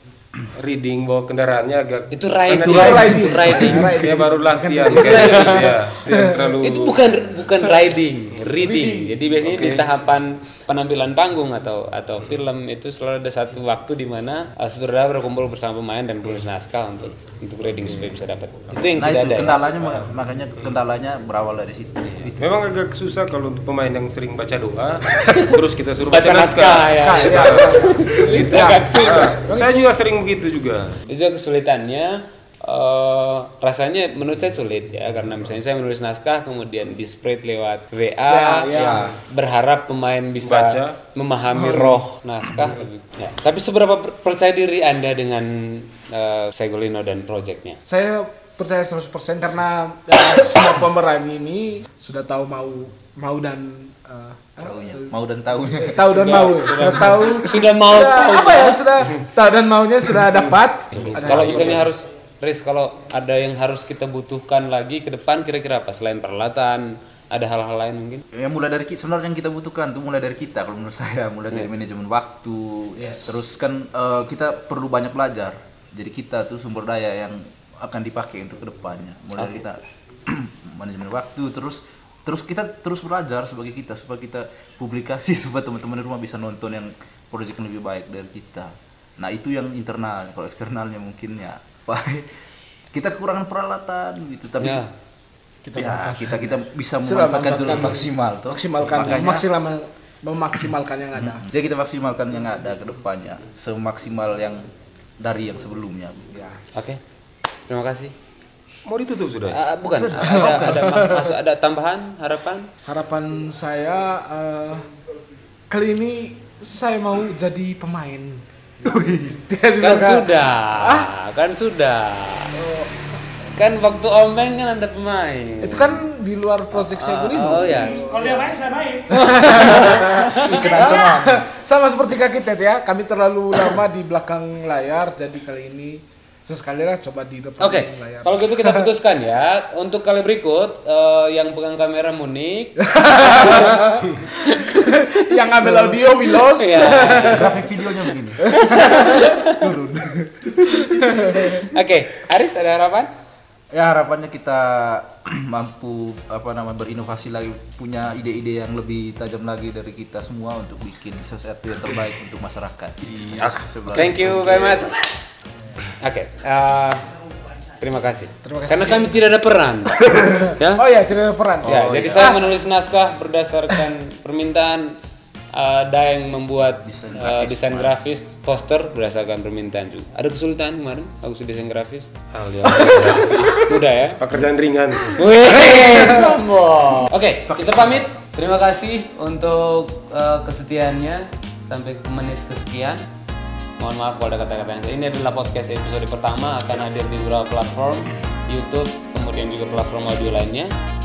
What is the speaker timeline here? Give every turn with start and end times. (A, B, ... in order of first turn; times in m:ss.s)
0:00.5-0:07.1 A
0:02.1-0:04.0 B
0:02.6-0:06.6 C
0:04.9-0:05.8 B
0:06.6-0:19.6 B
0:08.5-0:09.3 C
0:09.4-0:09.9 A
0:18.9-0:22.6 D
0:22.3-0:27.7 A
0:26.1-0:29.4 B
0:27.1-0:29.8 C
0:28.3-0:31.0 A
0:31.1-0:47.8 B
0:38.3-0:39.1 C
0:38.7-0:39.2 D
0:40.4-0:41.0 A
0:41.5-0:42.0 C
0:47.8-0:55.1 C
0:54.6-0:56.9 D
0:55.7-1:01.9 C
0:56.1-0:58.8 B
1:00.9-1:08.2 B
1:00.9-1:01.8 A
1:08.3-1:32.3 D
1:13.0-1:13.4 C
1:32.9-1:34.8 D
1:34.6-1:34.9 B
1:35.6-1:41.4 C
1:35.7-1:39.5 D
1:41.2-1:44.6 D
1:45.2-1:46.6 D
1:46.7-1:47.0 B
1:47.7-1:48.1 B
1:48.8-1:49.6 A
1:49.5-1:52.7 B
1:49.9-1:51.3 C
1:50.2-1:51.0 D
1:52.8-1:54.9 C
1:55.7-2:01.1 C
1:58.8-1:59.3 D
1:59.8-2:02.5 B
2:02.5-2:03.0 C
2:03.5-2:06.0 B
2:05.6-2:18.9 C
2:06.7-2:08.6 B
2:09.1-2:11.2 B
2:10.5-2:11.3 D
2:17.6-2:25.0 B
2:22.8-2:27.7 C
2:26.3-2:27.6 B
2:27.2-2:31.6 D
2:28.4-2:29.1 C
2:28.5-2:29.7 B
2:30.9-2:31.6 C
2:31.4-2:33.1 B
2:33.7-2:44.9 D
2:43.3-2:43.6 C
2:43.9-2:45.1 B
2:46.0-2:47.0 B
2:47.8-2:50.8 B
2:48.4-2:49.3 C
2:50.3-2:52.4 C
2:51.6-2:55.0 B
2:51.6-2:52.3 D
2:55.5-3:02.1 B
2:56.8-2:57.9 D
3:02.3-3:03.7 A
3:03.5-3:04.2 B
3:04.2-3:05.2 A
3:05.2-3:13.0 B
3:07.5-3:08.1 D
3:13.8-3:20.7 B